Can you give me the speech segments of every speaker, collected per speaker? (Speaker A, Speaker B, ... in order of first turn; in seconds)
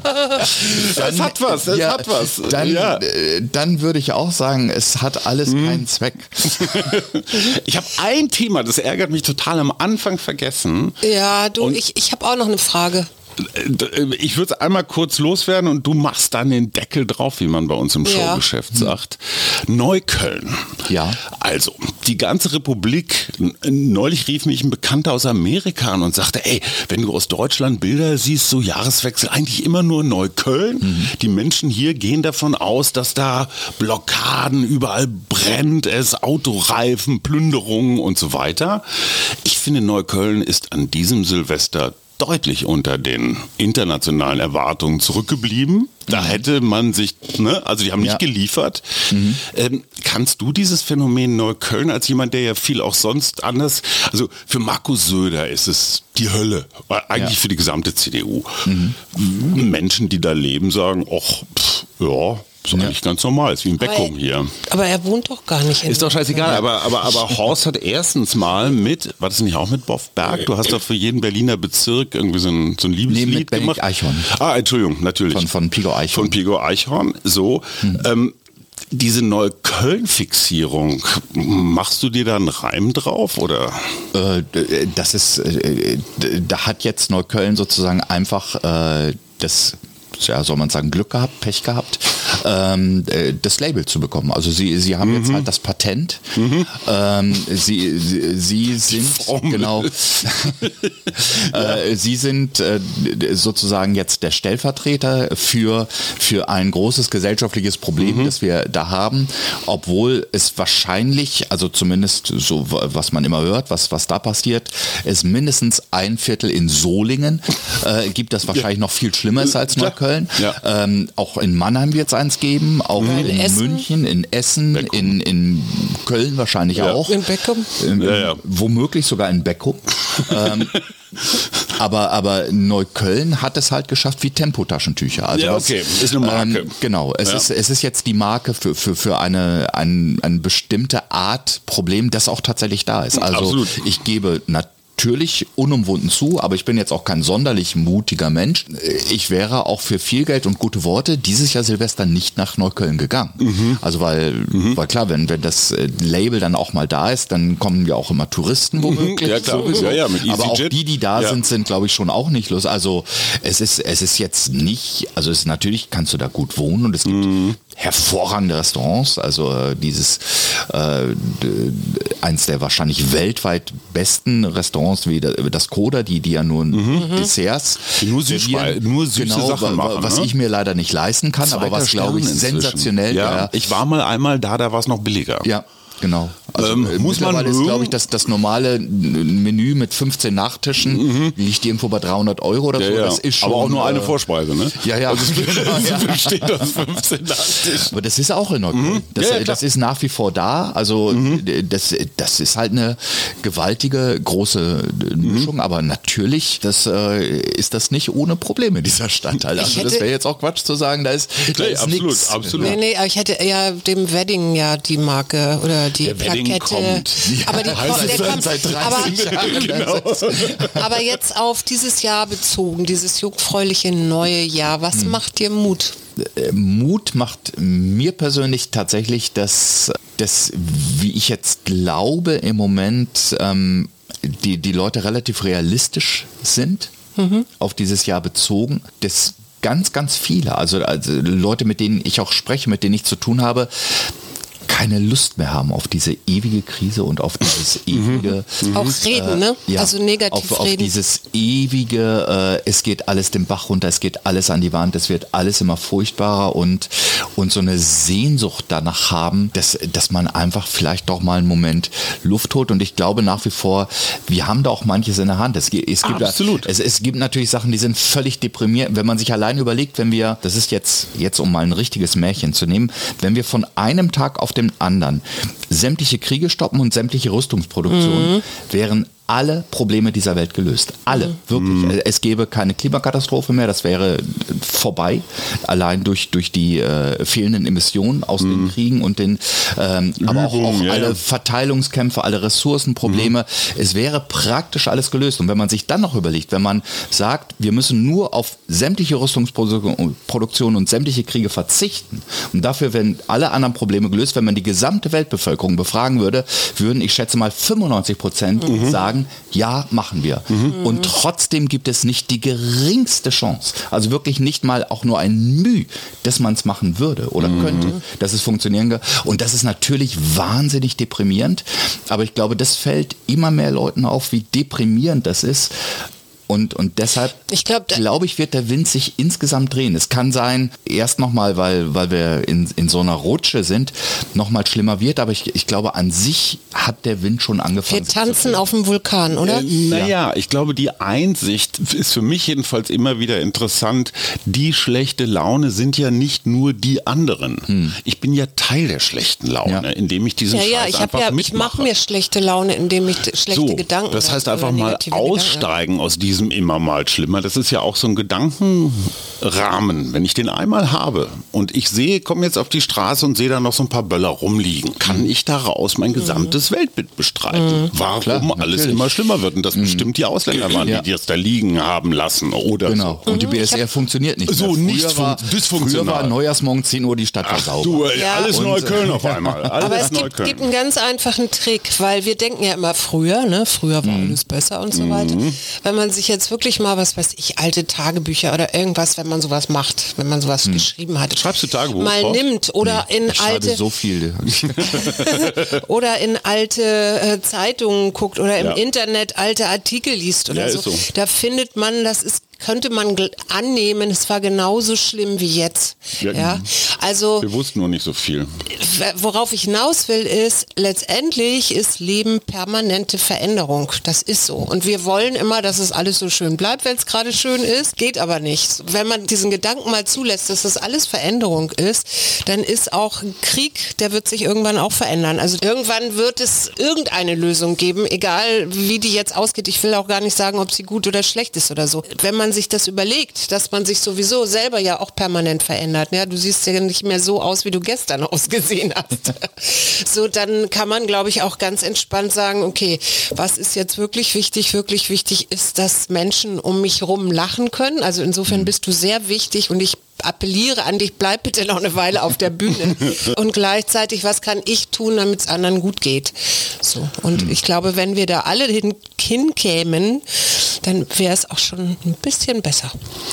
Speaker A: 0.4-3.0, 5.5-5.8, 6.4-11.0, 13.4-64.5, 65.8-75.5, 76.1-78.3, 78.9-84.0, 95.0-95.5, 96.3-96.7, 98.7-101.8, 108.0-108.3, 119.6-120.6, 123.0-123.3, 124.7-125.2, 126.7-127.0, 128.0-128.4, 130.2-130.7, 135.3-137.4, 143.1-143.8, 153.4-153.8, 154.5-154.8, 158.8-161.4, 167.1-167.6, 176.7-177.2, 178.0-180.3, 181.4-185.5, 186.6-188.0, 190.9-191.3, 192.8-197.9, 198.7-199.6, 201.1-201.4, 205.2-205.5, 211.5-212.8, 216.0-221.0, 247.9-248.9, 266.0-266.7, 281.6-281.9, 288.4-288.7, 290.2-291.2, 308.6-309.0, 310.5-310.8, 317.4-317.9, 339.4-351.9, 353.5-373.2, 374.5-376.4, 377.4-380.7, 384.9-385.6, 391.3-392.4, 394.8-395.8, 400.5-401.1, 406.2-406.6, 407.4-408.7
Speaker B: 0.4-7.1, 20.9-21.2, 30.8-31.1, 46.1-46.4, 49.1-49.4, 58.6-59.0, 66.4-66.7, 73.1-74.3, 75.3-76.4, 84.1-130.8, 131.7-183.5, 185.4-194.2, 194.7-196.8, 197.8-212.8, 217.2-220.8, 224.9-225.2, 226.2-236.9, 237.6-244.1, 244.7-327.4, 327.9-338.6, 347.7-347.9, 368.2-369.1, 369.7-370.1, 372.9-379.8, 384.0-384.4, 392.8-395.3
Speaker C: 11.0-13.1, 18.0-18.4, 63.8-64.1, 64.7-66.6, 123.0-123.8, 127.0-127.7, 209.6-210.1, 212.6-219.9, 220.6-225.9, 237.2-237.4, 248.6-250.9, 277.9-278.4, 327.5-328.0, 337.9-339.7, 350.5-355.7, 373.3-373.8, 378.1-378.6, 379.8-393.8, 394.9-407.5, 408.7-462.9